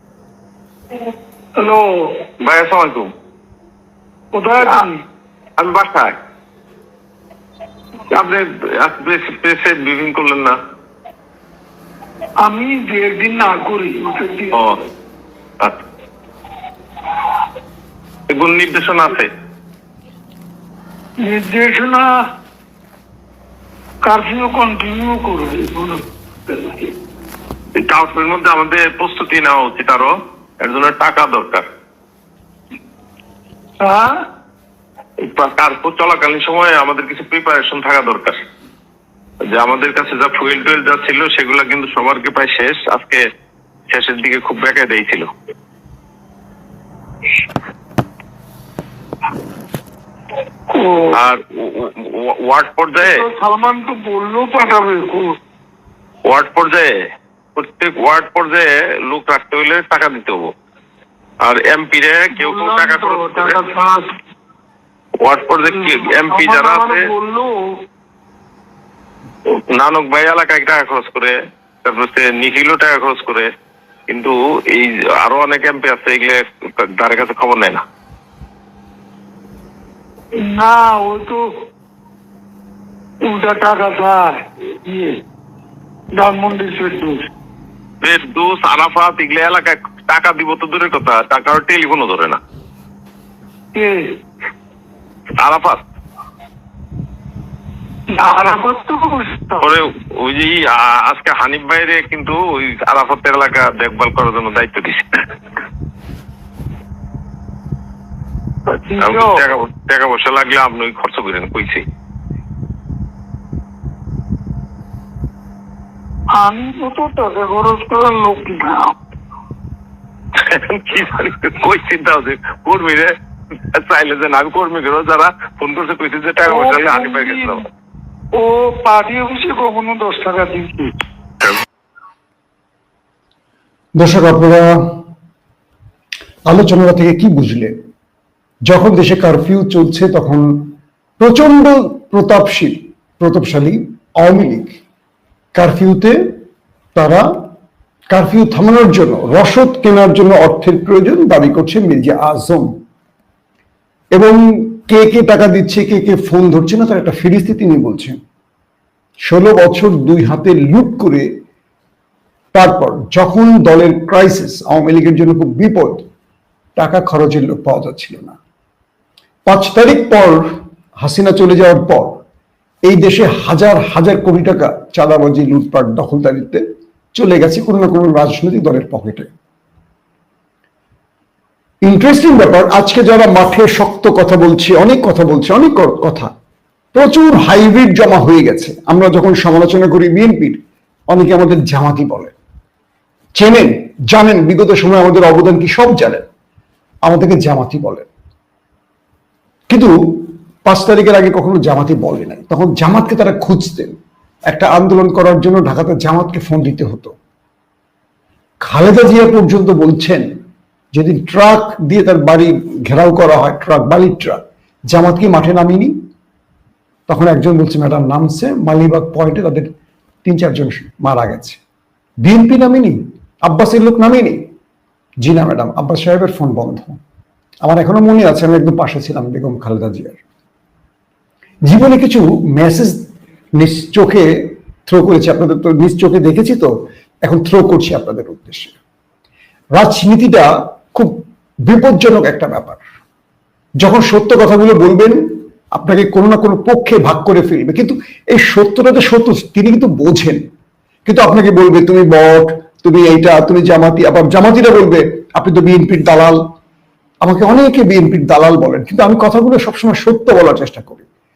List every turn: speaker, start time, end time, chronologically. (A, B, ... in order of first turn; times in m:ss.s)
0:01.6-0:02.2 A
0:02.4-0:03.1 B
0:04.3-0:05.0 A
0:04.6-0:04.9 B
0:05.6-0:06.2 B
0:08.1-0:10.6 B
0:12.4-0:14.6 A
0:14.5-0:14.8 B
0:18.3-0:19.3 B
0:21.2-0:22.3 A
0:24.0-0:26.9 A
0:27.8-0:31.6 B
0:33.8-0:34.2 A
0:35.2-0:38.4 B
0:39.5-0:43.2 B
0:43.9-0:45.3 B
0:50.7-0:51.2 A
0:51.1-0:53.2 B
0:53.0-0:55.3 A
0:56.3-0:56.9 B
0:57.5-1:00.5 B
1:01.4-1:03.6 B
1:02.3-1:04.1 A
1:05.2-1:07.1 B
1:05.7-1:07.8 A
1:09.5-1:13.5 B
1:14.1-1:17.8 B
1:20.3-1:21.5 A
1:23.2-1:25.2 A
1:26.2-1:27.3 A
1:28.0-1:32.4 B
1:33.8-1:34.2 A
1:35.4-1:35.8 B
1:38.1-1:39.7 A
1:39.6-1:45.0 B
1:48.7-1:49.4 A
1:49.0-1:51.8 B
1:56.3-1:59.0 A
2:00.3-2:07.6 B
2:06.5-2:07.6 A
2:08.3-2:10.9 A
2:14.0-2:15.0 C
2:16.5-2:17.7 C
2:18.7-2:24.8 C
2:25.6-2:26.3 C
2:27.0-2:27.3 C
2:28.1-2:32.7 C
2:34.1-2:38.2 C
2:39.2-2:41.3 C
2:42.5-2:46.0 C
2:46.8-2:48.4 C
2:49.5-2:50.5 C
2:51.0-2:52.2 C
2:52.9-2:56.6 C
2:57.2-2:59.3 C
3:01.8-3:06.3 C
3:06.9-3:10.6 C
3:11.1-3:12.3 C
3:13.4-3:16.3 C
3:17.1-3:18.1 C
3:19.7-3:24.0 C
3:24.5-3:27.1 C
3:28.6-3:30.2 C
3:30.9-3:35.9 C
3:37.1-3:39.7 C
3:40.2-3:41.6 C
3:42.2-3:44.4 C
3:45.2-3:47.0 C
3:47.6-3:50.2 C
3:51.6-3:53.0 C
3:53.6-3:56.7 C
3:57.2-3:58.8 C
3:59.8-4:02.8 C
4:03.8-4:05.2 C
4:05.8-4:10.4 C
4:11.0-4:16.4 C
4:17.2-4:21.0 C